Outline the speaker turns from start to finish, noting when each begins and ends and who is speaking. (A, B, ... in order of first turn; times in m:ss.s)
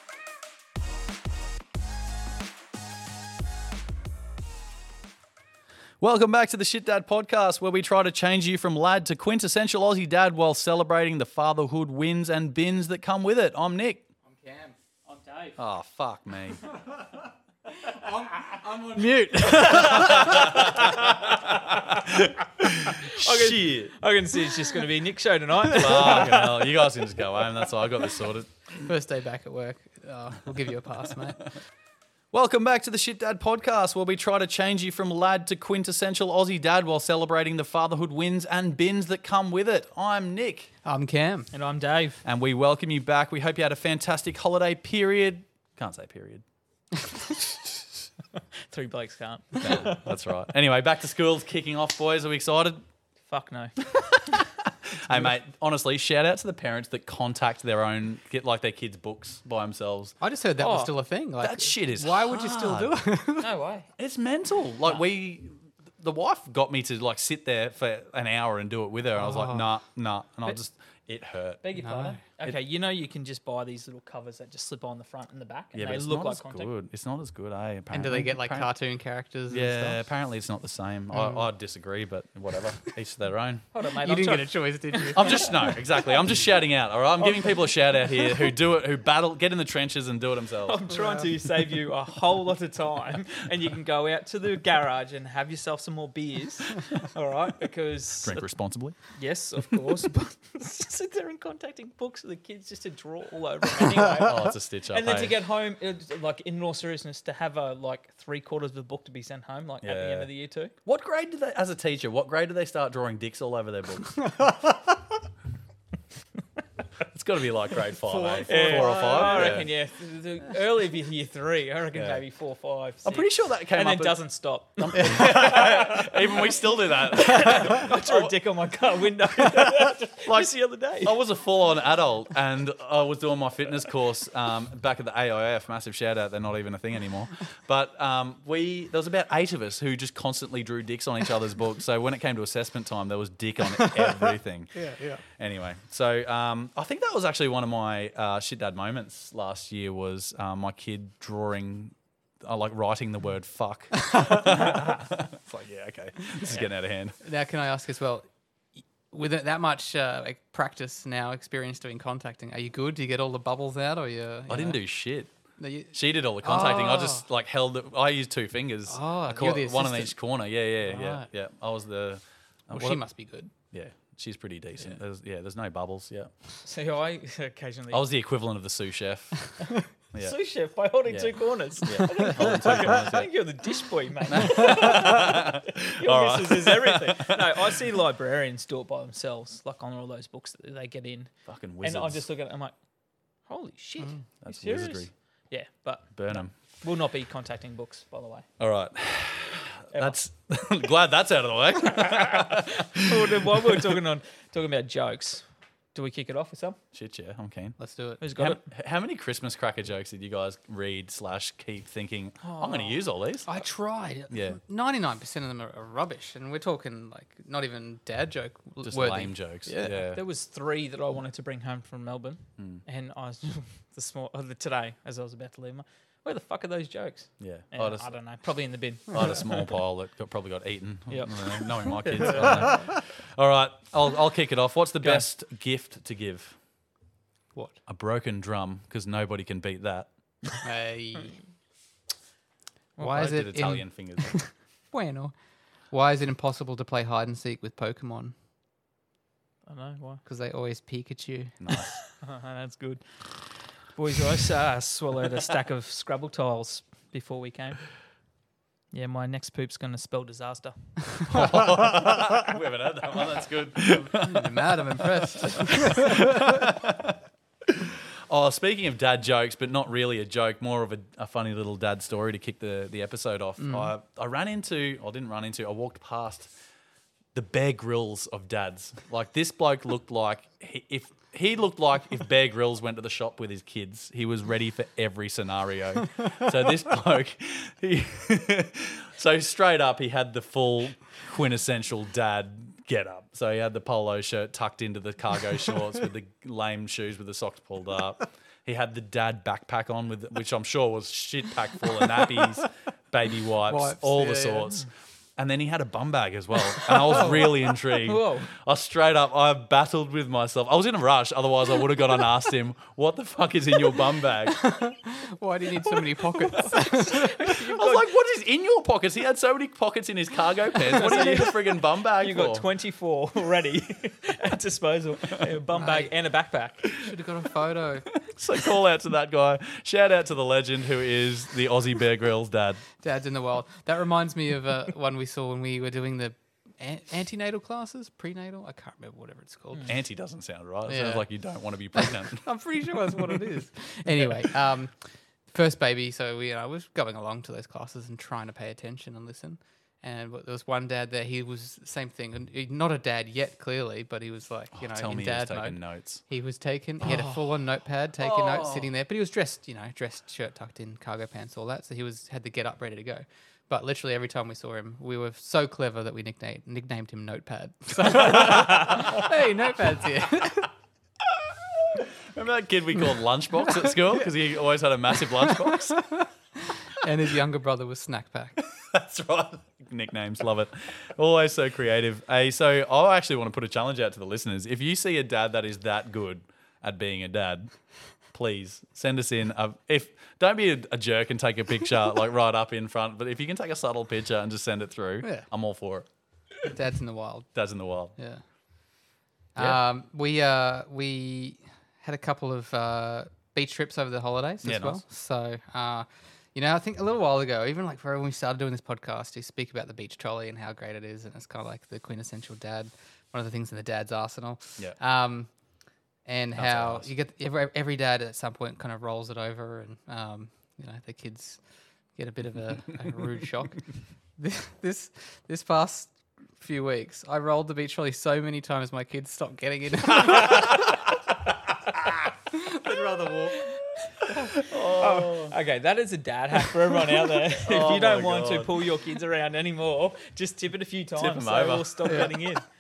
0:06.0-0:14.1 A
0:14.3-0:14.8 B
0:15.1-0:15.6 C
0:15.6-0:16.6 A
0:17.9-0:20.6 B
0:18.9-0:23.9 A
0:23.0-0:26.6 C
0:25.7-0:28.9 A
0:28.8-0:31.5 B
0:32.3-0:40.7 A
0:40.8-0:41.5 B
0:41.5-0:42.2 C
0:42.2-0:46.4 A
0:48.7-0:50.1 C
0:49.6-0:52.8 A
0:53.3-0:54.4 C
0:54.3-1:00.2 A
1:00.2-1:03.5 B
1:00.6-1:00.9 C
1:01.4-1:03.0 A
1:03.4-1:03.9 C
1:04.0-1:11.6 A
1:09.2-1:09.7 B
1:11.6-1:16.7 C
1:11.8-1:12.2 B
1:15.7-1:18.7 A
1:17.9-1:20.0 B
1:19.5-1:23.6 A
1:21.1-1:21.4 B
1:23.7-1:25.8 C
1:24.0-1:25.7 B
1:25.1-1:30.8 A
1:27.2-1:28.4 C
1:30.6-1:38.4 C
1:30.9-1:31.3 B
1:38.2-1:39.0 A
1:39.2-1:50.7 C
1:44.2-1:45.4 A
1:49.8-1:50.3 A
1:50.8-1:54.4 A
1:57.1-1:59.7 A
1:58.1-1:59.6 B
1:58.4-2:11.2 C
2:01.9-2:02.2 A
2:03.0-2:04.2 A
2:04.8-2:08.4 A
2:11.0-2:37.2 A
2:24.7-2:25.2 B
2:37.2-2:38.3 B
2:38.8-2:44.8 B
2:44.5-2:45.3 A
2:45.6-2:47.2 B
2:45.9-2:53.0 A
2:48.9-2:50.2 B
2:50.8-2:51.3 B
2:52.7-2:53.5 B
2:53.6-2:56.3 A
2:56.6-2:58.1 C
2:57.9-3:00.4 A
3:00.2-3:12.7 C
3:01.1-3:03.3 A
3:04.3-3:07.8 A
3:11.5-3:12.2 A
3:13.5-3:18.5 C
3:14.4-3:15.1 A
3:16.2-3:16.5 A
3:18.6-3:24.0 A
3:22.0-3:26.8 C
3:26.9-3:27.8 A
3:27.8-3:28.2 B
3:28.2-3:28.6 C
3:28.4-3:33.5 A
3:32.4-3:33.0 C
3:33.5-3:40.0 B
3:34.3-3:34.6 A
3:38.8-3:40.2 A
3:40.1-3:49.8 C
3:47.4-3:48.1 A
3:49.1-3:56.6 A
3:51.1-3:52.9 C
3:52.2-3:52.5 B
3:55.0-3:55.3 C
3:57.9-4:00.1 A
4:00.6-4:01.4 B
4:03.0-4:03.3 C
4:03.0-4:05.3 B
4:03.1-4:04.3 A
4:05.9-4:08.3 B
4:09.7-4:10.2 C
4:10.2-4:11.6 B
4:11.6-4:11.9 A
4:12.1-4:17.9 C
4:18.9-4:21.2 C
4:21.3-4:24.6 A
4:24.0-4:26.6 B
4:25.4-4:27.2 A
4:27.7-4:36.5 A
4:33.6-4:33.9 B
4:37.3-5:14.7 A
5:03.7-5:04.8 B
5:06.9-5:08.5 C
5:14.5-5:17.4 B
5:16.5-5:18.1 C
5:17.4-5:22.7 A
5:20.8-5:27.0 C
5:25.7-5:26.1 B
5:27.0-5:28.1 B
5:28.2-5:32.8 A
5:33.0-5:39.9 B
5:39.9-5:42.5 A
5:40.9-5:41.2 B
5:42.0-6:10.7 B
5:43.0-5:43.4 A
5:54.8-5:56.2 A
5:58.2-5:58.9 A
6:08.1-6:09.2 A
6:11.9-6:16.2 A
6:16.9-6:18.6 B
6:18.6-6:27.7 A
6:28.3-6:36.1 A
6:36.7-6:37.5 B
6:37.6-6:38.2 A
6:38.2-6:38.4 B
6:39.6-6:55.5 B
6:44.6-6:45.0 A
6:56.3-7:01.6 B
6:56.6-6:57.1 A
7:02.2-7:03.8 B
7:04.4-7:11.0 B
7:12.5-7:13.6 B
7:14.1-7:22.6 C
7:14.6-7:15.5 A
7:17.6-7:18.8 A
7:21.2-7:22.4 A